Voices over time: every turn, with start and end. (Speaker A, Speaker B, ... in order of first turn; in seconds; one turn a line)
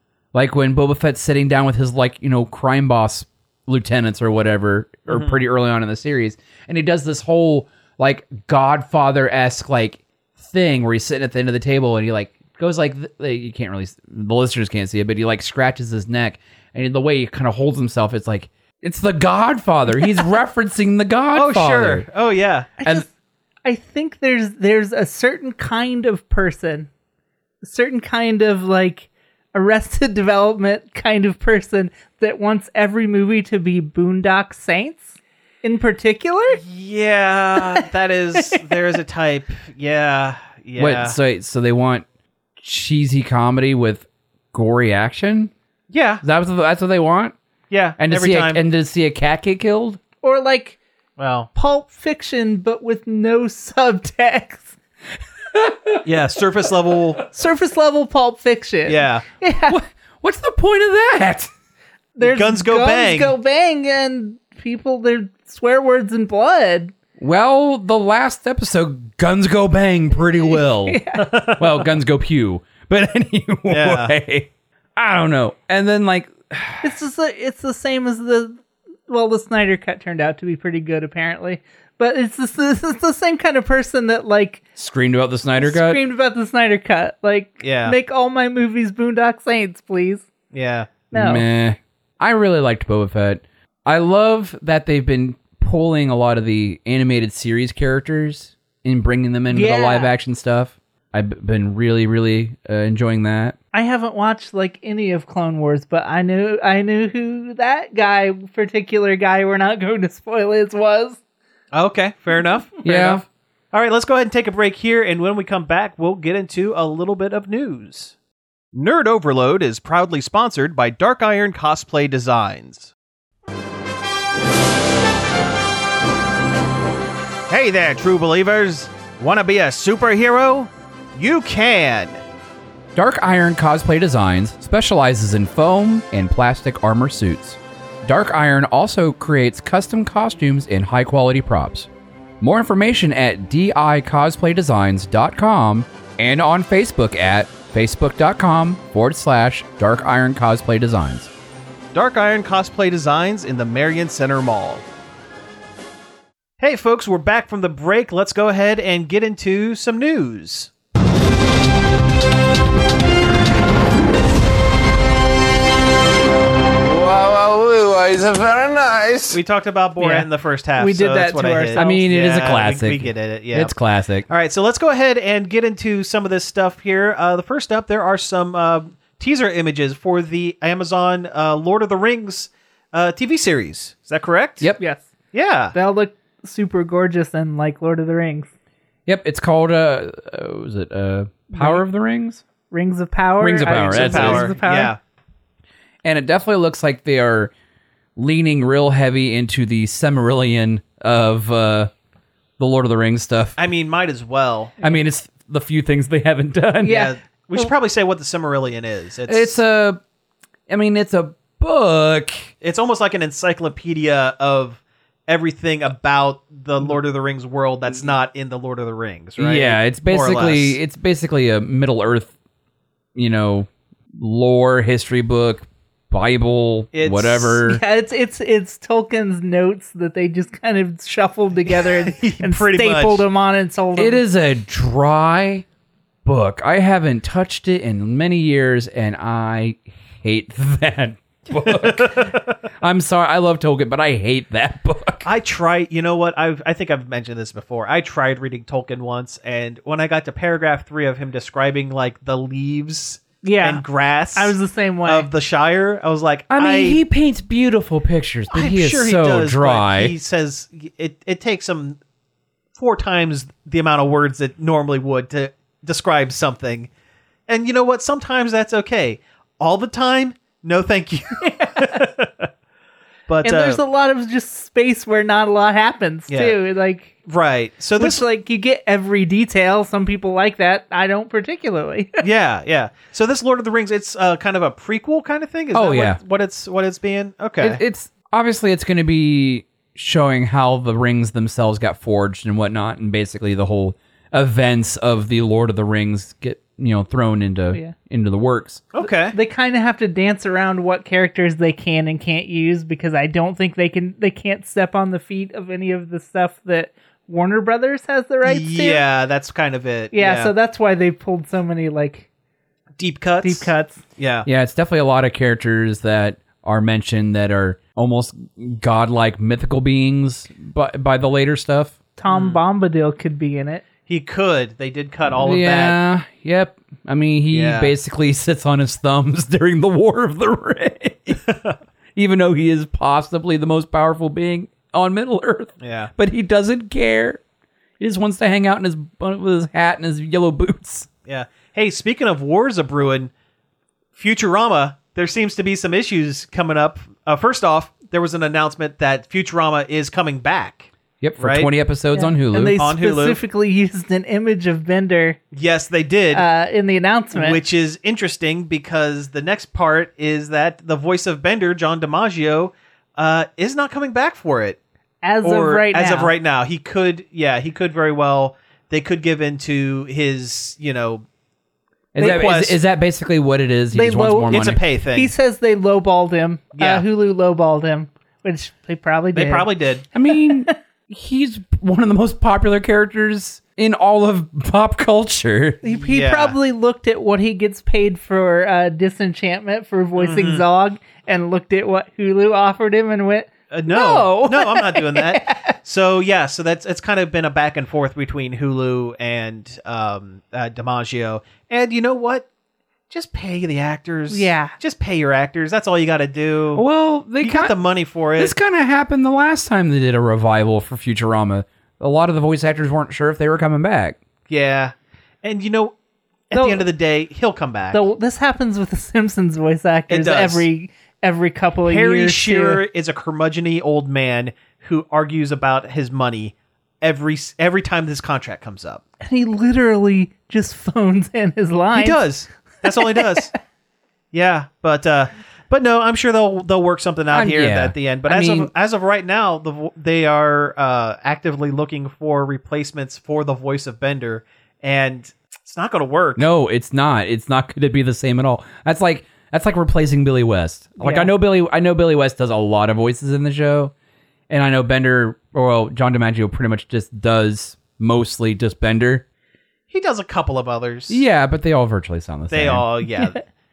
Speaker A: 0.3-22.1
Speaker B: 5.1-5.4
Speaker B: 21.3-22.7
Speaker C: 22.8-23.1
Speaker C: 23.6-26.9
Speaker C: 27.6-36.6
Speaker B: 36.6-41.2
Speaker C: 37.6-38.6
Speaker A: 40.8-42.0
Speaker A: 42.6-45.5
Speaker B: 45.9-46.2
Speaker A: 46.2-47.3
Speaker B: 47.7-48.6
Speaker A: 48.0-50.0
Speaker C: 50.2-50.8
Speaker B: 51.2-51.5
Speaker C: 51.5-54.8
Speaker A: 55.6-56.0
Speaker B: 56.0-57.2
Speaker C: 57.3-59.8
Speaker B: 58.9-59.2
Speaker A: 59.7-61.5
Speaker C: 62.2-66.9
Speaker B: 62.2-63.4
Speaker A: 67.2-71.0
Speaker C: 70.5-71.6
Speaker B: 71.2-71.7
Speaker A: 71.6-76.9
Speaker B: 73.7-74.1
Speaker C: 76.8-84.6
Speaker A: 84.8-86.0
Speaker C: 85.6-90.3
Speaker B: 87.6-88.0
Speaker B: 90.5-90.9
Speaker C: 91.1-91.5
Speaker A: 91.1-103.6
Speaker C: 99.5-100.1
Speaker C: 103.7-111.2
Speaker B: 111.7-118.2
Speaker A: 112.8-113.2
Speaker B: 118.7-122.9
Speaker B: 127.5-132.2
Speaker A: 132.9-141.9
Speaker A: 142.4-151.3
Speaker B: 151.9-154.8
Speaker B: 156.6-160.7
Speaker D: 166.8-169.4
Speaker B: 169.3-173.7
Speaker C: 170.0-172.0
Speaker A: 171.8-174.3
Speaker B: 174.3-184.7
Speaker C: 184.8-185.1
Speaker B: 185.3-185.8
Speaker C: 185.7-188.5
Speaker A: 189.1-192.4
Speaker C: 191.5-191.8
Speaker C: 192.7-194.9
Speaker A: 193.4-194.5
Speaker B: 193.7-195.0
Speaker A: 196.0-197.5
Speaker A: 198.2-201.9
Speaker A: 202.6-203.6
Speaker B: 203.6-204.8
Speaker A: 204.8-207.1
Speaker C: 206.8-207.7
Speaker B: 206.8-209.6
Speaker A: 209.3-210.0
Speaker A: 210.7-212.5
Speaker B: 212.6-220.8
Speaker A: 219.4-222.3
Speaker A: 223.2-227.8
Speaker B: 226.9-227.6
Speaker C: 227.7-234.2
Speaker B: 231.7-233.3
Speaker A: 234.0-235.7
Speaker A: 236.2-245.3
Speaker B: 241.6-242.5
Speaker B: 245.2-257.0
Speaker C: 253.4-255.3
Speaker A: 256.5-260.1
Speaker B: 258.5-262.0
Speaker B: 262.8-266.9
Speaker B: 267.5-272.5
Speaker C: 271.4-272.0
Speaker B: 273.3-273.8
Speaker C: 273.4-277.1
Speaker B: 276.3-276.6
Speaker B: 277.2-278.2
Speaker C: 278.0-282.2
Speaker B: 282.2-287.8
Speaker A: 285.7-286.2
Speaker A: 287.6-298.8
Speaker B: 298.9-299.4
Speaker C: 299.3-309.0
Speaker B: 308.4-310.5
Speaker C: 310.1-312.3
Speaker B: 313.0-314.5
Speaker C: 313.4-314.0
Speaker A: 314.4-322.0
Speaker C: 322.2-323.8
Speaker B: 322.3-322.6
Speaker B: 324.1-326.0
Speaker A: 325.4-331.4
Speaker B: 327.5-327.9
Speaker B: 331.5-331.8
Speaker A: 332.2-337.4
Speaker B: 335.8-336.1
Speaker A: 338.0-341.1
Speaker B: 341.3-343.3
Speaker B: 344.1-351.7
Speaker A: 351.2-352.8
Speaker C: 352.1-355.4
Speaker B: 352.8-353.4
Speaker B: 355.5-356.4
Speaker C: 356.3-357.6
Speaker B: 357.3-364.8
Speaker C: 365.2-366.3
Speaker B: 365.4-371.2
Speaker A: 372.1-374.8
Speaker B: 372.2-372.8
Speaker C: 373.9-379.7
Speaker B: 374.5-375.3
Speaker B: 376.8-377.1
Speaker B: 379.3-380.1
Speaker A: 380.1-385.8
Speaker C: 380.3-380.7
Speaker C: 385.8-395.8
Speaker B: 386.0-386.6
Speaker B: 390.2-390.6
Speaker B: 393.7-402.5
Speaker B: 403.1-406.8
Speaker C: 404.3-404.8
Speaker A: 406.7-407.8
Speaker B: 407.4-408.5
Speaker A: 408.4-414.2
Speaker B: 414.5-415.9
Speaker B: 416.5-418.0
Speaker C: 416.5-416.9
Speaker C: 417.9-422.8
Speaker B: 420.1-420.7
Speaker B: 421.9-429.0
Speaker C: 429.2-432.2
Speaker B: 431.9-433.5
Speaker C: 433.0-433.5
Speaker B: 434.3-446.5
Speaker A: 437.3-438.7
Speaker A: 446.4-453.9
Speaker C: 451.0-451.3
Speaker A: 454.5-459.2
Speaker B: 459.9-461.2
Speaker A: 461.1-462.9
Speaker B: 462.5-463.4